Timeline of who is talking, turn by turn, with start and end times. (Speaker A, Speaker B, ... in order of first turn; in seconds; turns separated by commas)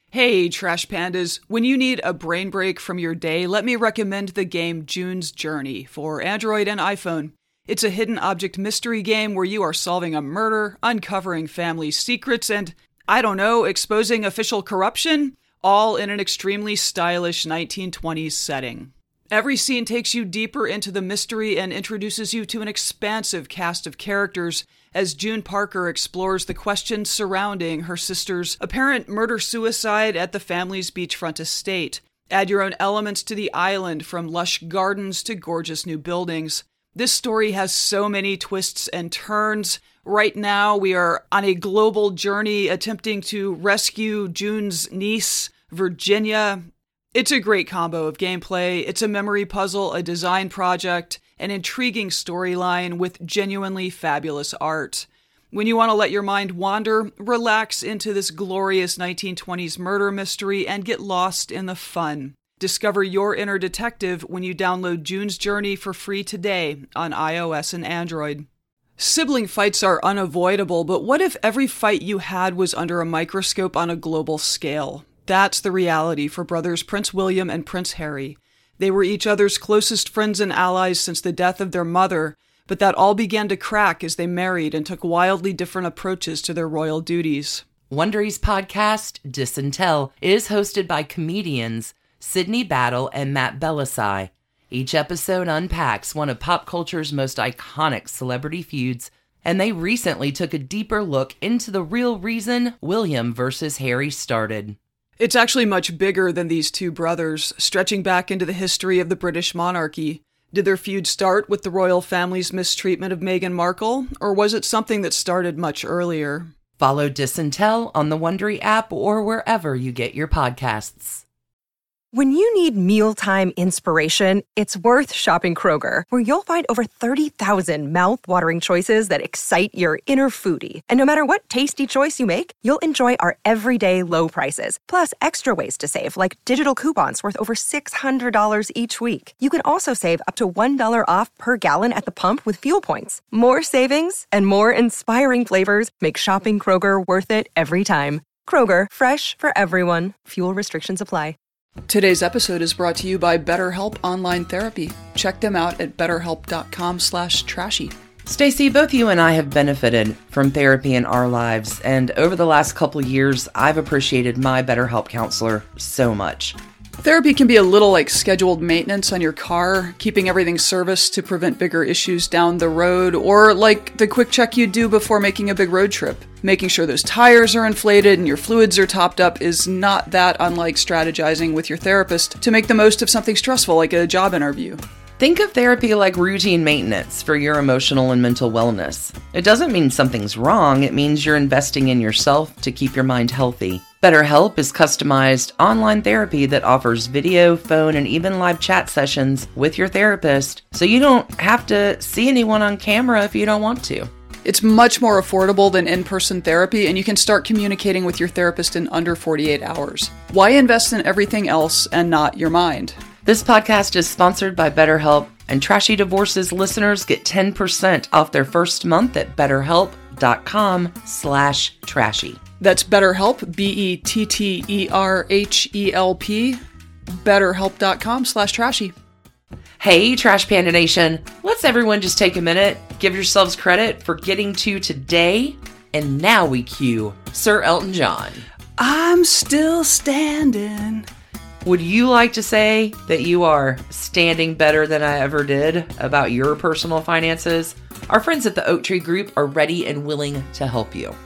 Speaker A: 0.1-68.5, Speaker A: 69.0-87.7, Speaker B: 87.9-104.8, Speaker A: 105.2-116.5, Speaker B: 116.8-121.2, Speaker C: 122.1-151.4, Speaker A: 151.9-158.0, Speaker B: 158.2-166.6, Speaker A: 167.0-184.8, Speaker B: 185.2-204.1, Speaker A: 204.4-213.0, Speaker B: 213.2-222.4, Speaker A: 222.6-228.9, Speaker B: 229.8-238.4, Speaker A: 238.8-241.1, Speaker B: 241.6-251.2